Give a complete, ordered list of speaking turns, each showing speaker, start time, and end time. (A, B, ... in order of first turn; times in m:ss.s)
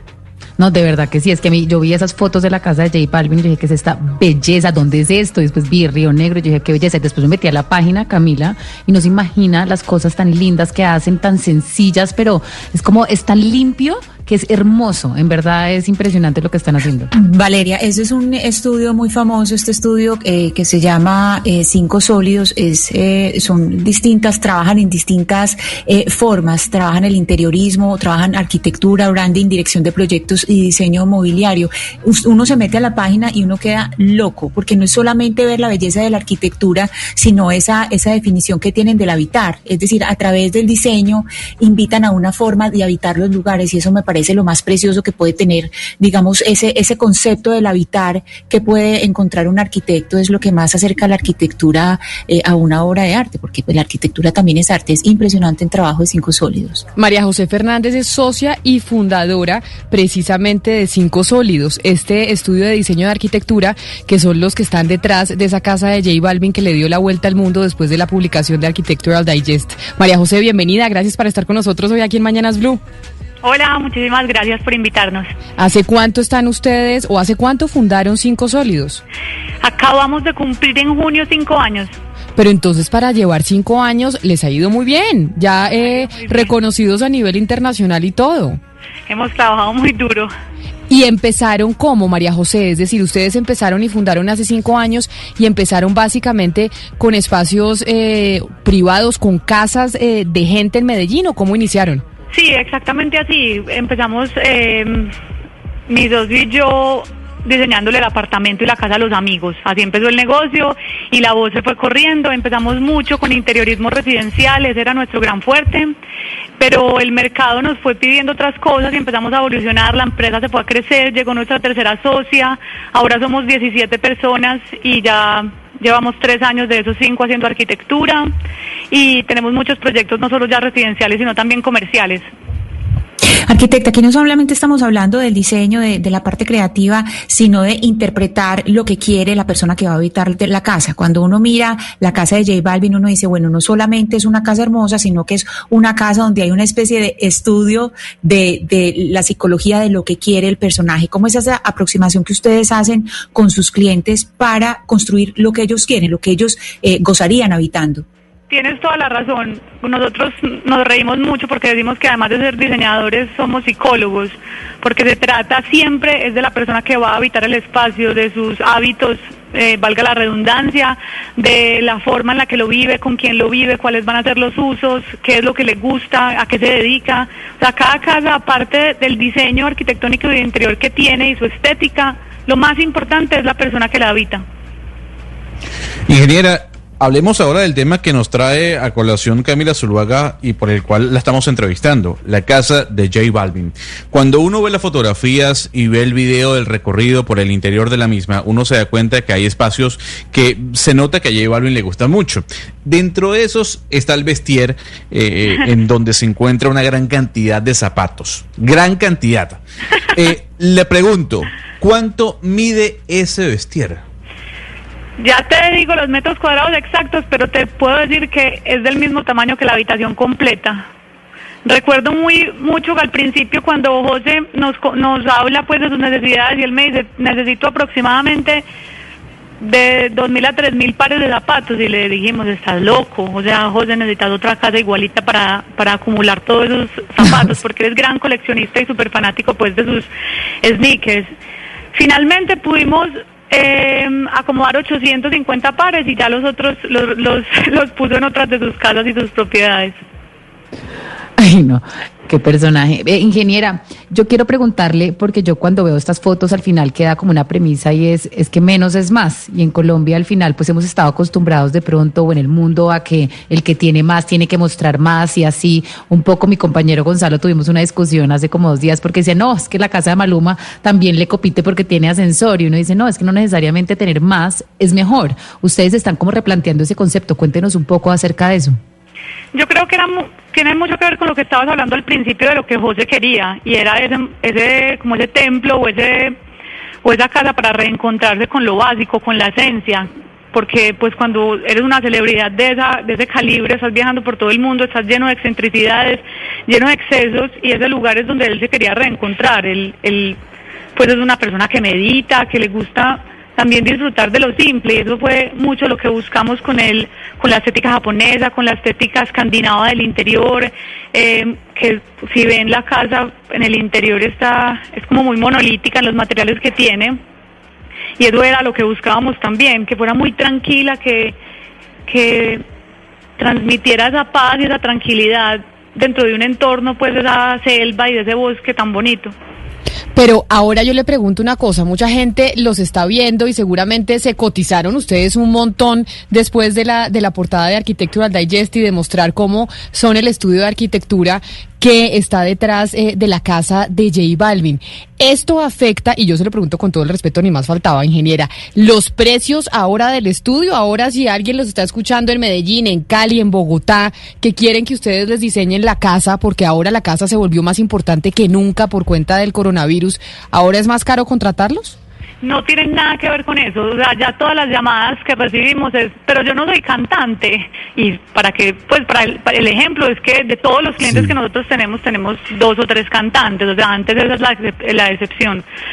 0:00.6-0:17.1 A
0:17.1-0:56.8 B
0:57.0-1:12.8 C
1:13.4-1:15.3 D
1:15.6-1:19.0 C
1:19.6-1:22.0 D
1:22.4-1:28.6 C
1:25.6-1:26.5 D
1:29.1-1:30.3 D
1:30.9-1:42.0 C
1:42.3-1:45.1 D
1:45.9-1:56.0 D
1:56.6-2:08.3 D
2:08.9-2:12.2 D
2:13.5-2:38.0 B
2:38.5-3:04.4 D
3:06.1-3:29.6 E
3:30.1-3:34.0 E
3:35.2-3:40.9 D
3:41.6-3:48.6 D
3:49.6-4:00.1 D
4:00.6-4:01.3 D
4:02.0-4:10.0 D
4:11.4-4:38.8 A
4:39.5-4:46.4 D
4:47.0-5:00.4 D
5:01.0-5:17.2 D
5:18.2-5:21.4 D
5:22.1-5:22.6 D
5:23.4-5:29.3 D
5:30.2-6:02.0 C
6:02.4-6:15.6 D